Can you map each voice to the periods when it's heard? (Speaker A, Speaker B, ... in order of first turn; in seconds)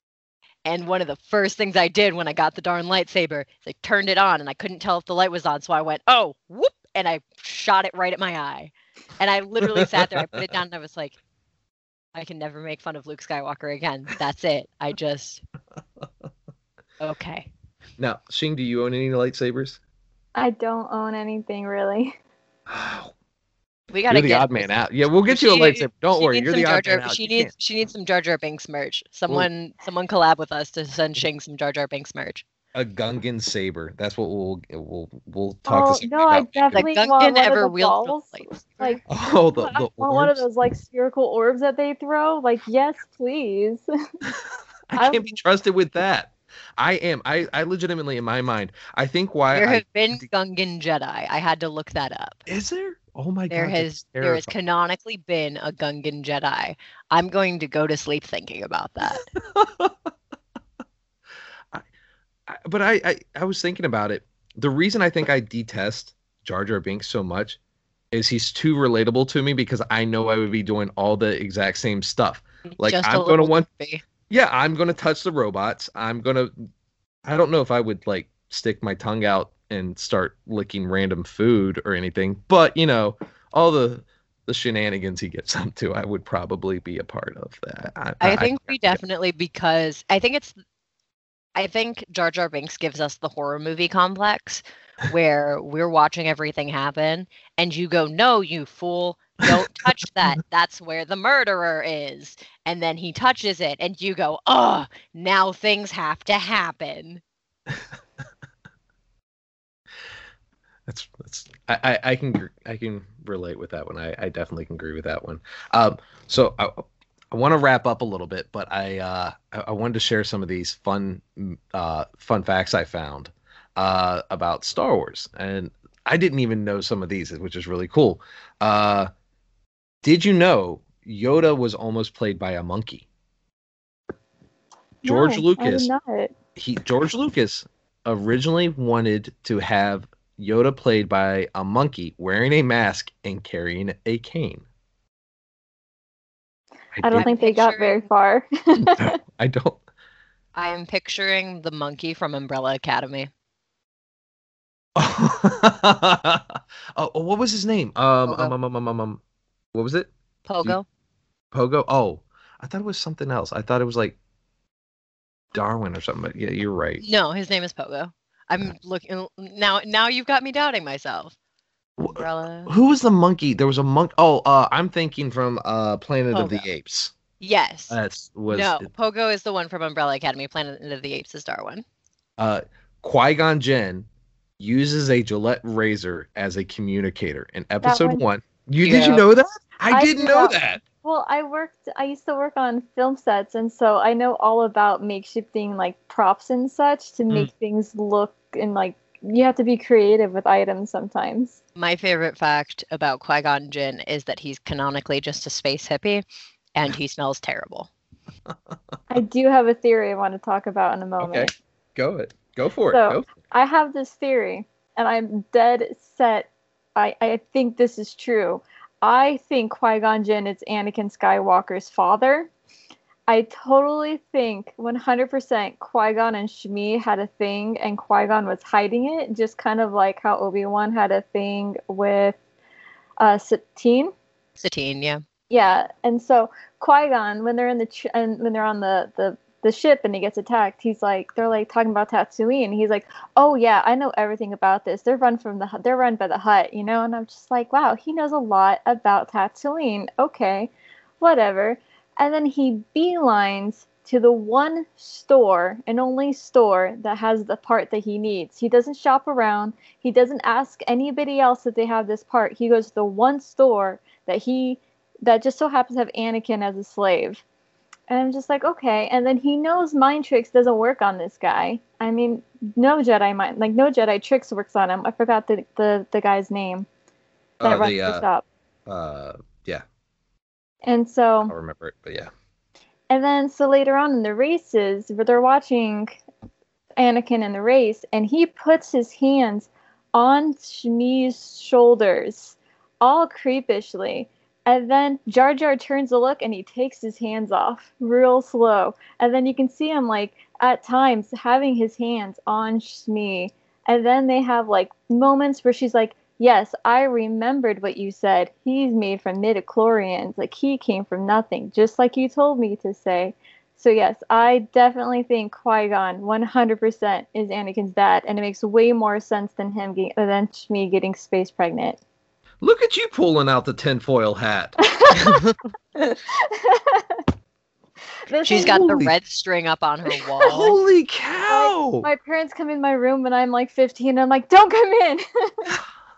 Speaker A: 0.6-11.2, 12.1-15.4, 17.0-17.5, 23.9-32.4, 36.7-39.0, 49.5-52.5, 53.5-59.2, 72.7-74.0, 88.2-90.6, 91.5-107.2, 147.1-148.1, 150.5-153.3, 158.2-158.5, 160.4-160.8, 167.0-171.3, 172.0-172.7, 176.3-176.7, 177.4-178.0, 178.5-181.8, 188.8-189.2, 201.8-207.9, 234.6-235.2, 325.2-325.5, 328.4-330.8
Speaker B: 9.6-10.4, 18.0-19.8, 22.7-23.1, 24.1-27.5, 32.7-36.8, 39.1-40.4, 44.9-50.3, 52.5-54.5, 59.1-60.1, 62.5-67.6, 68.1-73.7, 74.3-76.5, 77.2-89.0, 110.9-129.1, 130.0-133.1, 135.0-135.9, 136.6-144.6, 146.9-147.2, 148.8-149.8, 154.9-159.2, 159.7-160.1, 161.5-164.2, 165.5-167.0, 172.0-177.1, 177.9-178.9, 182.4-184.1, 184.6-190.8, 211.2-213.3, 277.6-278.2, 278.9-279.8, 281.5-282.3, 322.6-324.8, 328.5-329.1, 330.4-332.1
Speaker C: 20.3-22.1, 35.7-43.8, 45.0-45.2, 135.0-136.3, 147.0-149.1, 187.8-188.2, 189.9-201.6, 209.1-211.5, 212.9-222.5, 223.3-232.4, 233.2-234.1, 235.5-267.4, 268.1-276.9, 277.6-278.4, 280.8-281.5, 283.1-286.2, 287.0-322.0, 324.8-325.4, 325.9-327.2, 328.3-329.0, 331.4-335.7